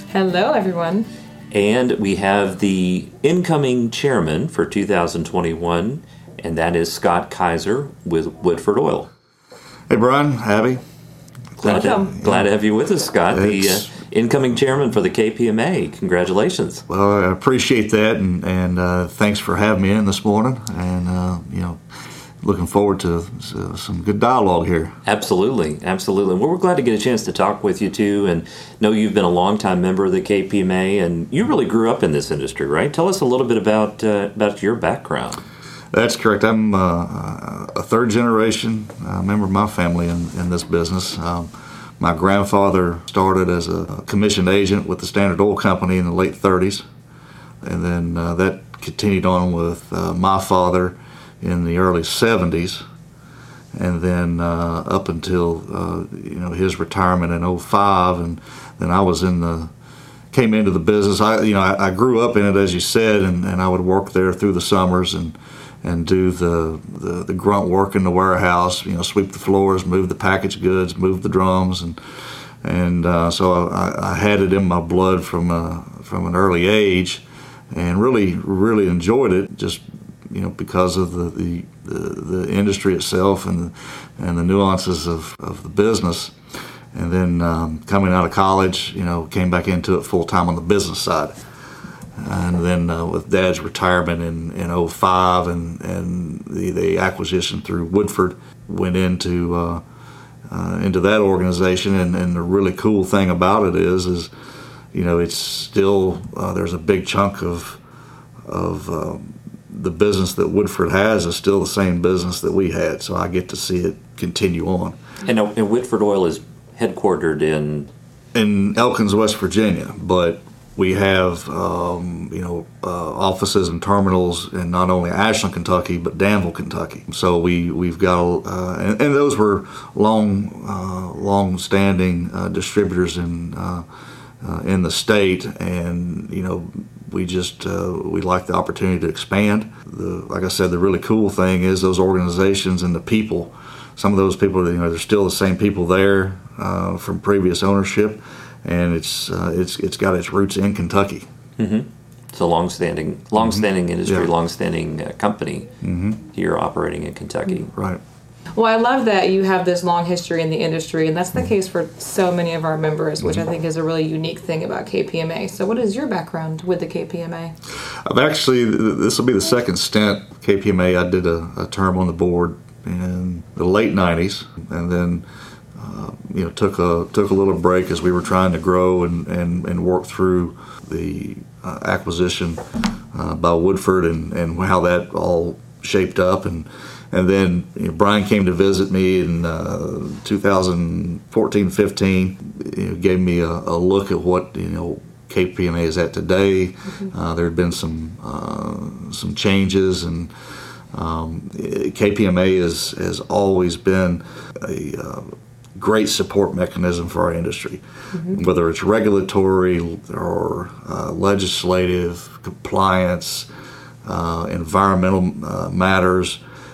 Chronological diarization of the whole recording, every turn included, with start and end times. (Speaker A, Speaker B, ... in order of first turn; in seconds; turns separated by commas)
Speaker A: 0.1-1.1, Speaker B: 1.5-9.1, Speaker C: 9.9-10.8, Speaker B: 11.6-16.8, Speaker C: 11.6-12.5, Speaker A: 11.7-12.1, Speaker C: 13.3-13.9, Speaker C: 16.9-21.8, Speaker C: 22.4-24.9, Speaker B: 25.0-35.4, Speaker C: 35.9-46.8, Speaker C: 47.6-52.8, Speaker C: 53.7-59.7, Speaker C: 60.3-72.0, Speaker C: 72.6-86.3, Speaker C: 86.9-91.3, Speaker C: 92.2-99.8, Speaker C: 100.5-104.3, Speaker C: 104.9-107.8, Speaker C: 108.5-115.0, Speaker B: 115.2-117.9, Speaker C: 118.3-133.8, Speaker C: 134.4-151.2, Speaker B: 151.6-155.7, Speaker C: 155.8-156.2, Speaker B: 156.3-157.7, Speaker C: 157.7-158.0, Speaker A: 158.5-167.5, Speaker C: 168.1-175.2, Speaker C: 175.8-182.6, Speaker C: 183.1-200.3, Speaker C: 200.9-213.5, Speaker C: 214.0-216.4